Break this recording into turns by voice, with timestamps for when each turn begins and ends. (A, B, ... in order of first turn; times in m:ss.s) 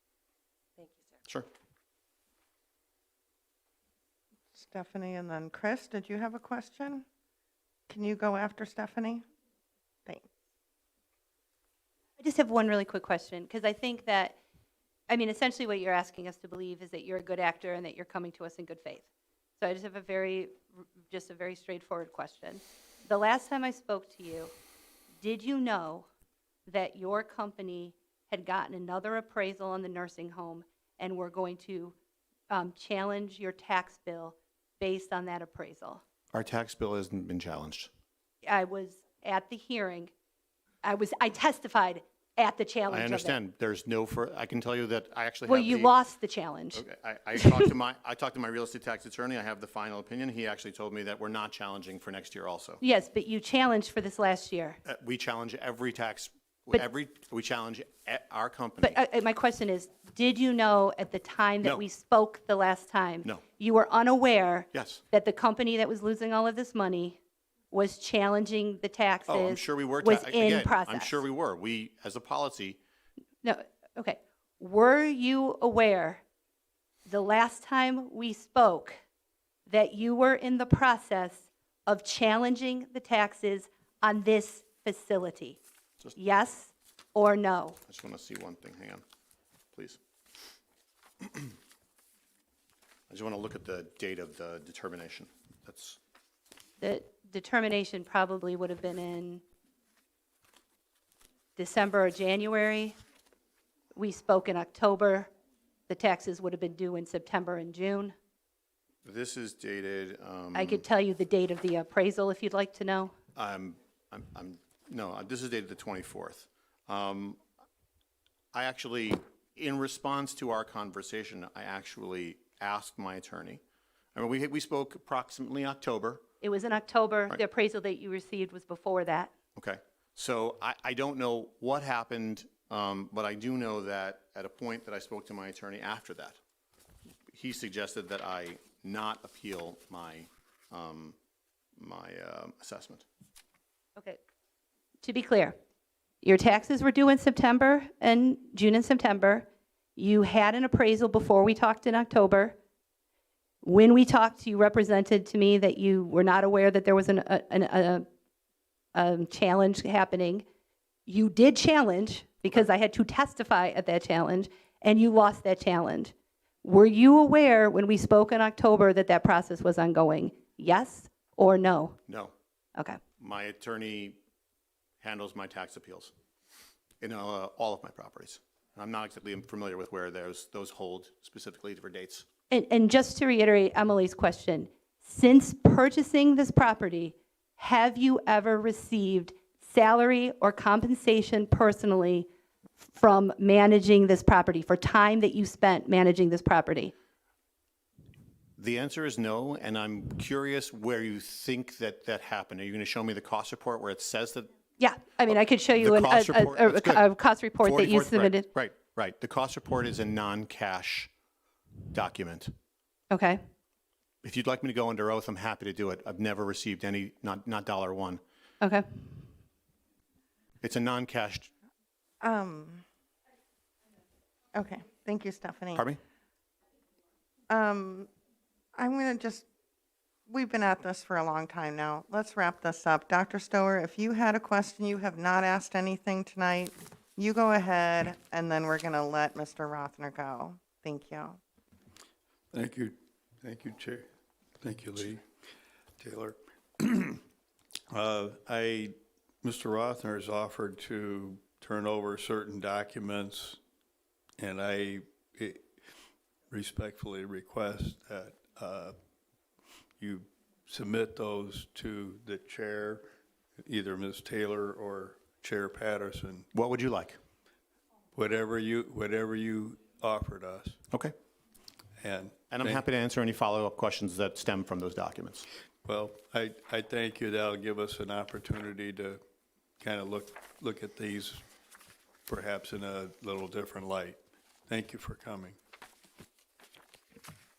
0:04.5-0:07.0 A
0:07.9-0:09.2 A
0:12.2-0:14.4 B
0:15.1-0:19.0 B
0:19.6-0:24.5 B
0:25.2-0:26.1 B
0:26.7-0:31.9 B
0:32.5-0:36.0 B
0:36.3-0:37.9 C
0:38.4-0:40.1 B
0:40.8-0:43.4 B
0:42.9-0:45.9 C
0:45.4-0:46.8 B
0:46.7-0:52.8 C
0:47.3-0:47.7 B
0:52.8-0:54.8 B
0:54.8-0:59.0 C
0:58.8-1:07.2 B
1:04.7-1:05.0 C
1:07.7-1:11.2 B
1:09.3-1:12.8 C
1:13.4-1:16.2 B
1:17.0-1:19.0 B
1:19.7-1:25.6 B
1:26.2-1:27.8 B
1:27.9-1:29.0 C
1:29.7-1:30.0 C
1:33.1-1:36.0 C
1:36.8-1:39.4 B
1:41.6-1:43.0 B
1:43.9-1:45.3 B
1:45.9-1:48.1 B
1:49.0-1:50.8 C
1:50.5-1:53.1 B
1:53.3-1:57.4 C
1:58.5-2:03.6 C
2:04.1-2:06.2 C
2:06.4-2:09.3 B
2:09.5-2:16.4 C
2:17.3-2:21.2 C
2:21.8-2:23.0 C
2:25.0-2:25.5 B
2:26.2-2:32.6 B
2:33.6-2:38.0 B
2:38.9-2:40.4 B
2:41.1-2:52.0 B
2:52.1-2:52.3 C
2:53.2-2:54.2 C
2:55.0-2:56.1 C
2:57.0-3:02.2 C
3:02.5-3:12.3 B
3:12.8-3:16.9 B
3:18.6-3:24.5 C
3:24.8-3:28.4 B
3:25.7-3:27.1 C
3:27.6-3:31.1 C
3:31.9-3:32.5 C
3:33.1-3:33.4 B
3:34.2-3:38.2 C
3:38.6-3:39.1 B
3:40.6-3:41.5 C
3:42.2-3:42.8 A
3:44.5-3:45.8 A
3:47.5-3:48.1 A
3:48.7-3:49.4 A
3:50.3-4:01.4 A
4:02.5-4:04.0 D
4:04.6-4:05.2 D
4:06.0-4:07.2 D
4:07.9-4:13.6 D
4:14.4-4:15.6 D
4:16.5-4:18.9 D
4:20.0-4:23.1 D
4:23.6-4:26.5 D
4:26.5-4:27.2 C
4:28.1-4:30.8 D
4:32.0-4:32.8 D
4:32.5-4:35.4 C
4:35.8-4:39.2 D
4:39.8-4:41.4 D
4:42.3-4:45.6 D